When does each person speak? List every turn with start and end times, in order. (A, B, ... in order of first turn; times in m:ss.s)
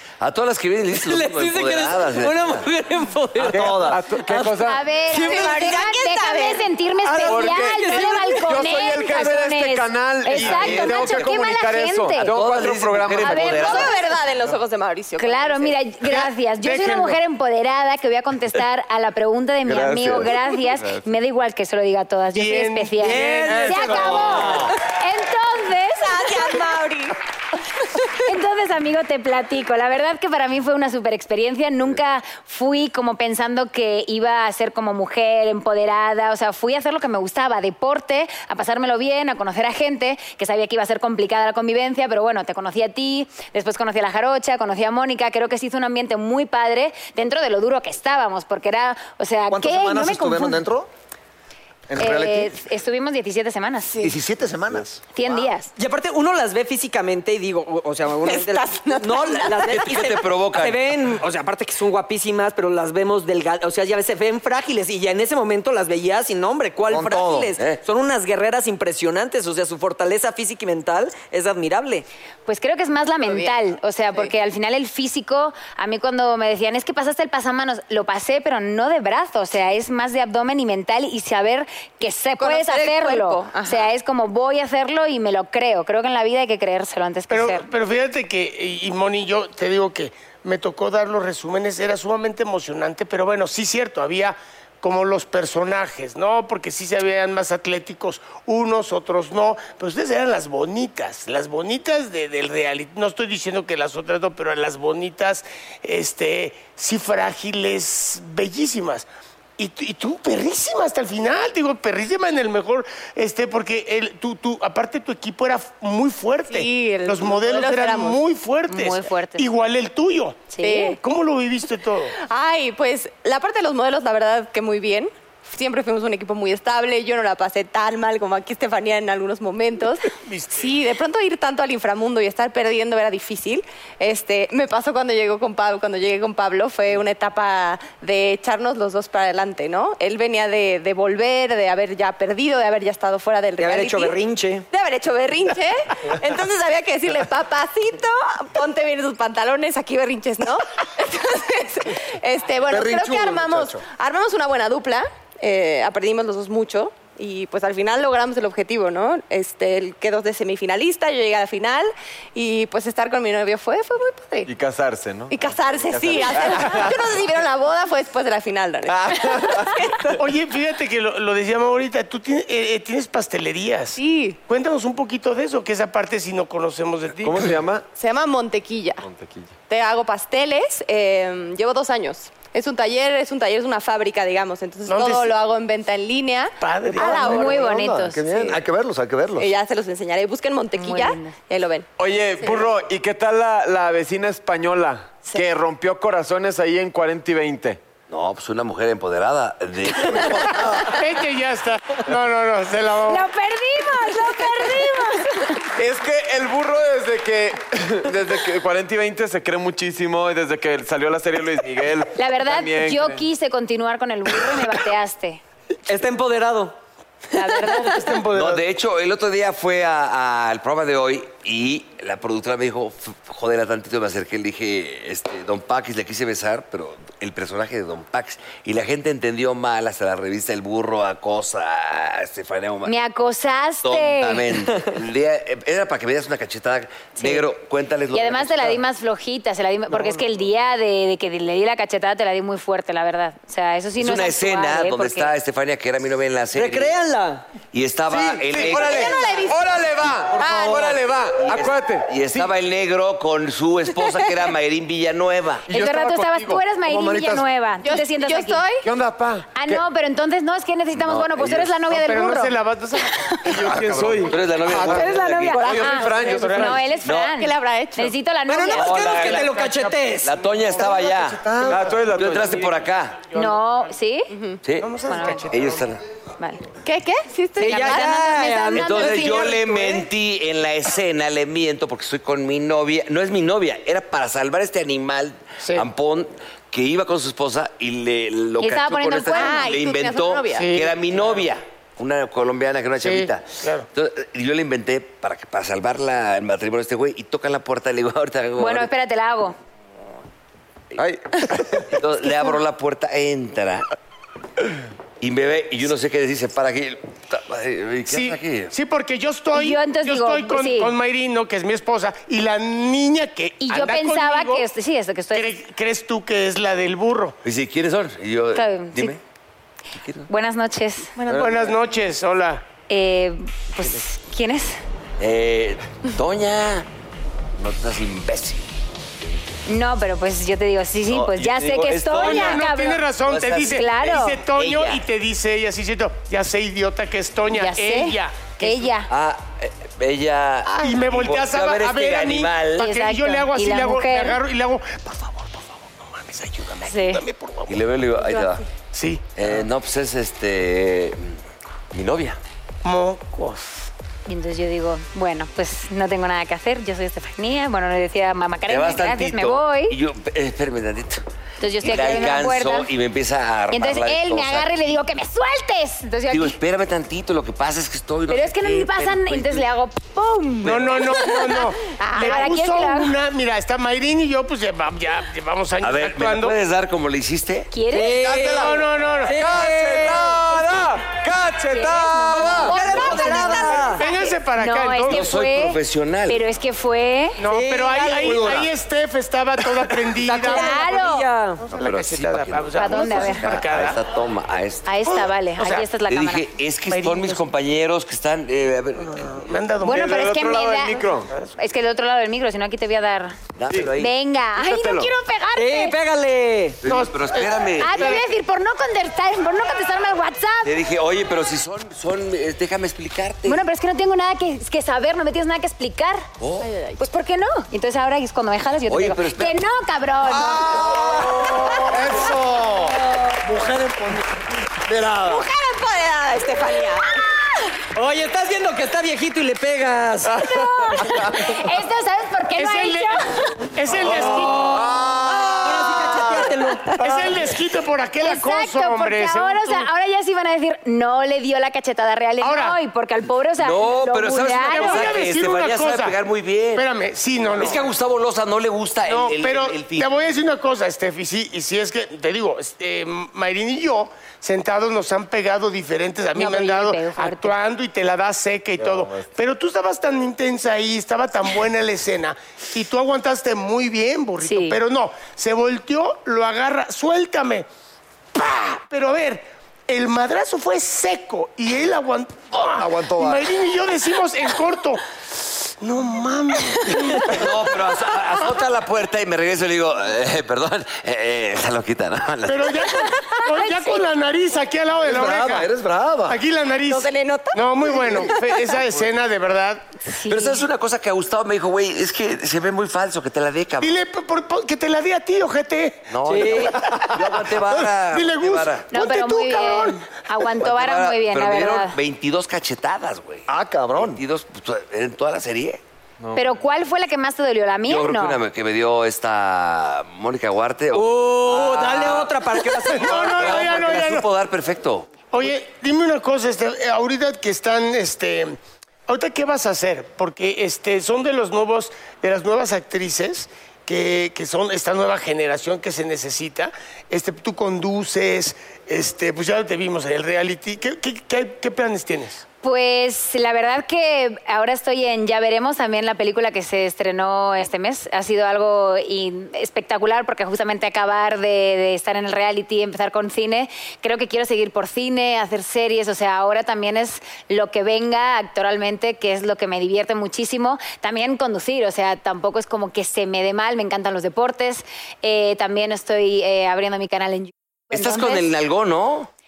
0:00.2-0:02.6 A
0:01.0-0:04.5 B
0:03.5-0:04.0 C
0:03.5-0:04.8 D
0:04.6-0:12.3 E
0:05.1-0:05.7 B
0:05.1-0:06.7 F
0:07.0-0:08.5 B
0:07.2-0:14.0 D
0:10.3-0:11.3 A
0:12.2-0:14.0 A
0:13.2-0:13.9 E
0:13.6-0:15.8 F
0:15.2-0:26.7 E
0:16.0-0:17.2 G
0:19.6-0:21.0 D
0:22.3-0:24.7 G
0:23.0-0:24.7 B
0:26.0-0:27.2 F
0:28.0-0:50.6 E
0:49.5-0:50.9 C
0:51.9-0:52.5 C
0:52.0-0:54.1 E
0:54.0-0:55.0 C
0:55.1-0:55.7 E
0:55.8-1:12.1 B
0:58.2-0:59.7 F
0:59.7-1:00.9 A
1:06.9-1:07.5 C
1:12.5-1:27.7 E
1:13.2-1:13.5 F
1:22.4-1:23.9 F
1:27.3-2:02.2 G
1:56.5-1:58.2 F
1:58.7-1:59.5 E
2:00.5-2:01.0 E
2:00.6-2:01.0 F
2:02.2-2:24.2 F
2:10.2-2:10.7 G
2:23.6-2:24.7 B
2:24.7-2:44.5 F
2:32.7-2:33.8 C
2:44.5-2:47.0 D
2:45.3-2:50.2 F
2:48.9-2:50.1 D
2:50.2-2:57.5 G
2:54.0-2:54.4 F
2:57.2-2:57.8 D
2:58.0-2:59.1 F
2:59.0-2:59.5 D
2:59.7-3:08.6 F
3:04.9-3:05.4 G
3:06.6-3:07.5 G
3:07.0-3:08.4 E
3:07.2-3:09.5 C
3:09.4-3:11.9 F
3:10.8-3:11.4 E
3:12.0-3:17.8 D
3:18.1-3:20.8 A
3:20.8-3:23.3 G
3:23.1-3:25.6 E
3:25.8-3:33.2 D
3:32.2-3:35.4 E
3:35.9-3:36.8 B
3:37.3-3:38.2 E
3:38.0-3:38.6 G
3:38.3-3:52.9 A
3:52.8-3:54.5 E
3:53.8-3:58.8 A
3:57.2-3:57.5 E
3:58.1-4:05.3 E
4:04.0-4:06.9 A
4:06.6-4:07.4 B
4:07.7-4:09.2 A
4:08.1-4:12.5 D
4:08.6-4:11.0 F
4:11.4-4:15.7 A
4:15.7-4:16.6 D
4:15.7-4:18.7 E
4:16.9-4:17.4 C
4:17.8-4:18.8 F
4:18.8-4:19.8 D
4:19.6-4:22.6 E
4:21.0-4:21.8 A
4:21.9-4:24.3 G
4:23.2-4:23.5 E
4:23.5-4:26.8 D
4:24.2-4:25.6 A
4:24.9-4:29.0 E
4:25.5-4:26.4 F
4:25.9-4:26.9 G
4:27.0-4:27.4 A
4:27.3-4:28.1 F
4:28.5-4:30.3 B
4:28.7-4:29.6 A
4:29.1-4:30.0 G
4:30.2-4:31.5 A
4:30.8-4:32.0 C
4:31.6-4:32.7 D
4:32.1-4:33.3 A
4:33.3-4:33.6 G
4:33.3-4:34.3 E
4:34.3-4:34.6 F
4:34.6-4:36.0 A
4:34.7-4:35.9 G
4:35.1-4:35.5 E
4:36.8-4:39.9 F
4:37.6-4:39.6 B
4:37.7-4:39.8 E
4:38.8-4:58.9 A
4:48.6-4:49.7 E
4:49.3-4:50.7 F
4:50.6-4:51.0 G
4:53.0-4:53.9 G
4:58.6-4:59.6 E
5:01.0-5:01.9 D
5:01.9-5:03.9 A
5:05.2-5:08.8 A
5:08.1-5:14.7 G
5:09.5-5:10.9 E
5:13.6-5:15.6 E
5:15.3-5:17.4 G
5:17.4-5:19.2 A
5:18.5-5:19.2 E
5:20.0-5:20.3 A
5:20.3-5:21.2 E
5:21.2-5:22.6 G
5:22.9-5:24.8 E
5:25.2-5:26.9 A
5:27.6-5:28.8 A
5:29.7-5:33.1 E
5:31.1-5:32.7 A
5:32.1-5:38.9 G
5:33.2-5:35.0 A
5:33.7-5:34.4 E
5:37.5-5:39.1 E
5:39.1-5:42.9 A
5:40.7-5:47.8 G
5:42.8-5:44.4 E
5:46.9-5:47.2 E
5:47.7-5:48.6 A
5:48.9-5:49.3 G
5:49.4-5:51.4 A
5:51.9-5:52.4 A
5:52.8-5:53.9 G
5:54.3-6:00.0 E
5:58.7-6:01.2 A
6:01.6-6:02.9 E
6:01.8-6:04.7 A
6:03.7-6:06.6 E
6:06.3-6:09.6 A
6:08.3-6:13.2 E
6:10.6-6:16.6 G
6:15.8-6:17.7 A
6:17.7-6:18.4 E
6:17.9-6:20.4 B
6:18.1-6:22.8 D
6:18.5-6:19.4 G
6:21.7-6:27.4 E
6:22.6-6:24.0 B
6:22.8-6:24.1 F
6:24.0-6:25.4 G
6:25.1-6:26.4 A
6:27.4-6:31.0 G
6:27.5-6:28.6 B
6:30.2-6:31.6 B
6:30.4-6:31.3 E
6:31.6-6:34.0 G
6:31.8-6:35.2 A
6:32.8-6:33.4 E
6:34.9-6:36.4 E
6:35.1-6:35.9 G
6:36.0-6:39.5 A
6:36.9-6:37.4 G
6:39.0-6:40.3 G
6:39.8-6:41.0 E
6:39.9-6:41.3 D
6:41.6-6:43.4 E
6:43.6-6:44.1 A
6:44.0-6:46.0 E
6:44.6-6:45.1 D
6:45.6-6:46.8 B
6:46.8-6:48.2 A
6:46.8-6:48.2 G
6:47.8-6:50.8 E
6:50.6-6:53.6 A
6:53.5-6:56.3 E
6:56.4-6:56.7 A
6:56.6-6:57.0 F
6:57.0-7:01.0 E
6:58.9-6:59.6 A
7:00.2-7:04.3 C
7:01.7-7:01.9 B
7:04.8-7:05.5 C
7:05.2-7:07.2 F
7:08.0-7:10.4 B
7:10.4-7:13.4 E
7:12.6-7:14.7 G
7:14.0-7:17.3 B
7:14.7-7:15.7 D
7:15.0-7:15.5 C
7:17.0-7:19.9 G
7:18.2-7:25.2 E
7:22.4-7:22.8 G
7:23.6-7:26.9 A
7:24.6-7:26.2 G
7:26.8-7:27.8 G
7:27.5-7:30.3 A
7:29.1-7:47.7 G
7:36.3-7:37.6 E
7:38.8-7:39.2 D
7:44.4-7:44.8 E
7:48.4-7:55.0 G
7:52.8-7:53.5 C
7:55.8-7:57.8 G
7:57.2-8:03.0 A
8:02.4-8:05.7 G
8:03.2-8:04.0 E
8:05.0-8:06.4 C
8:06.3-8:09.9 G
8:06.9-8:08.4 F
8:10.1-8:10.6 E
8:10.3-8:14.0 A
8:13.8-8:16.1 G
8:16.1-8:18.9 A
8:16.3-8:16.8 B
8:16.7-8:20.1 G
8:18.9-8:22.0 E
8:20.6-8:25.8 A
8:23.5-8:24.2 C
8:26.4-8:28.4 E
8:27.9-8:32.3 A
8:30.9-8:33.7 B
8:32.9-8:34.3 G
8:33.0-8:35.1 A
8:35.3-8:52.4 G
8:52.6-9:18.4 E
9:17.9-9:19.3 A